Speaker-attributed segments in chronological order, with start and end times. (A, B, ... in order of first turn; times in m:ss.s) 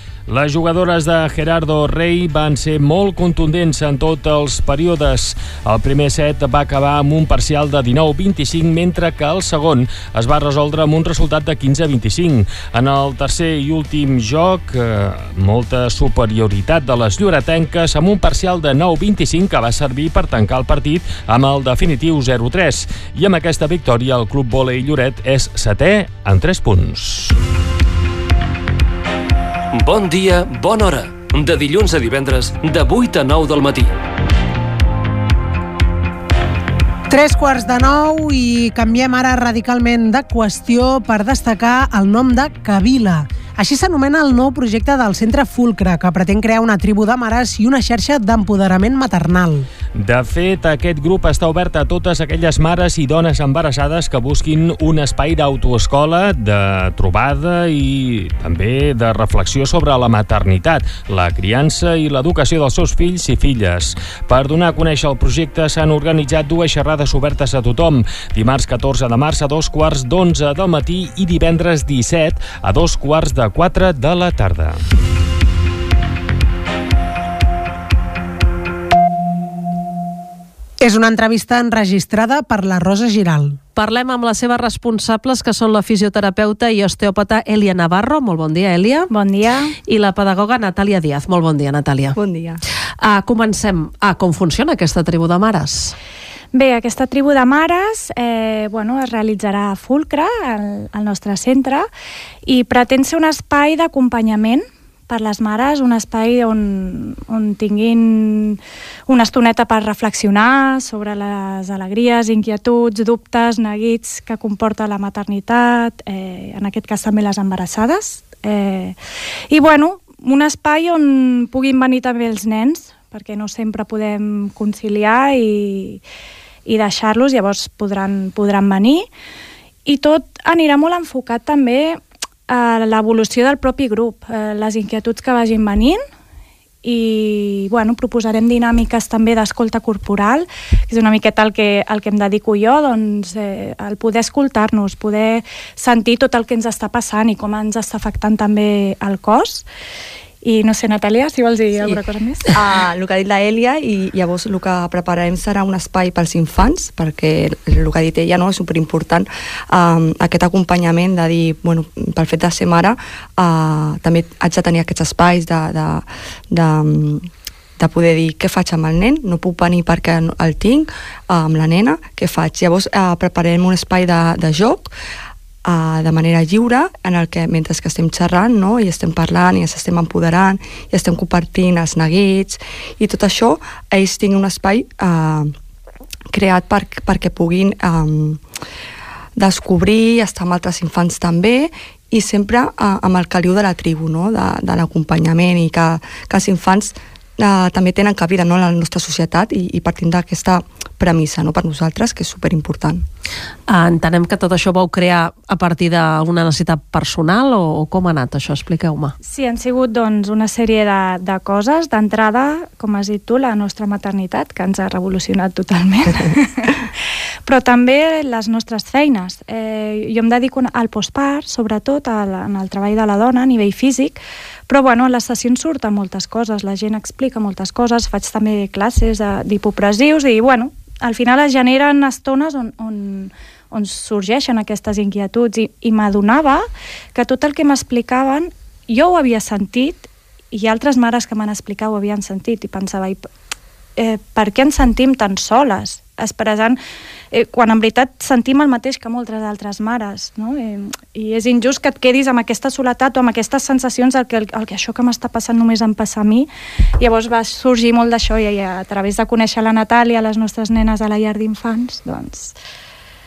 0:00.3-0:27.4 A
0:29.7-0:33.9 B
0:37.1-0:49.7 C
0:50.0-1:14.8 A
1:20.8-1:23.6 C
1:23.8-1:29.1 D
1:29.1-1:29.7 E
1:29.9-1:32.2 D
1:32.1-1:32.6 F
1:33.0-1:35.9 D
1:36.5-1:41.8 E
1:42.5-1:48.6 E
1:49.1-1:58.9 E
1:59.5-2:06.0 E
2:06.7-2:09.0 E
2:09.9-2:12.0 E
2:12.5-2:16.0 E
2:16.8-2:29.6 E
2:30.4-2:32.4 E
2:32.5-2:47.3 F
2:47.8-2:54.9 F
2:55.6-3:05.5 F
3:06.3-3:08.4 F
3:09.4-3:23.0 F
3:23.7-3:29.1 D
3:29.2-3:36.1 E
3:37.5-3:44.2 E
3:44.7-3:56.6 E
3:57.1-4:03.2 E
4:04.0-4:06.8 E
4:07.3-4:16.5 E
4:17.0-4:22.5 E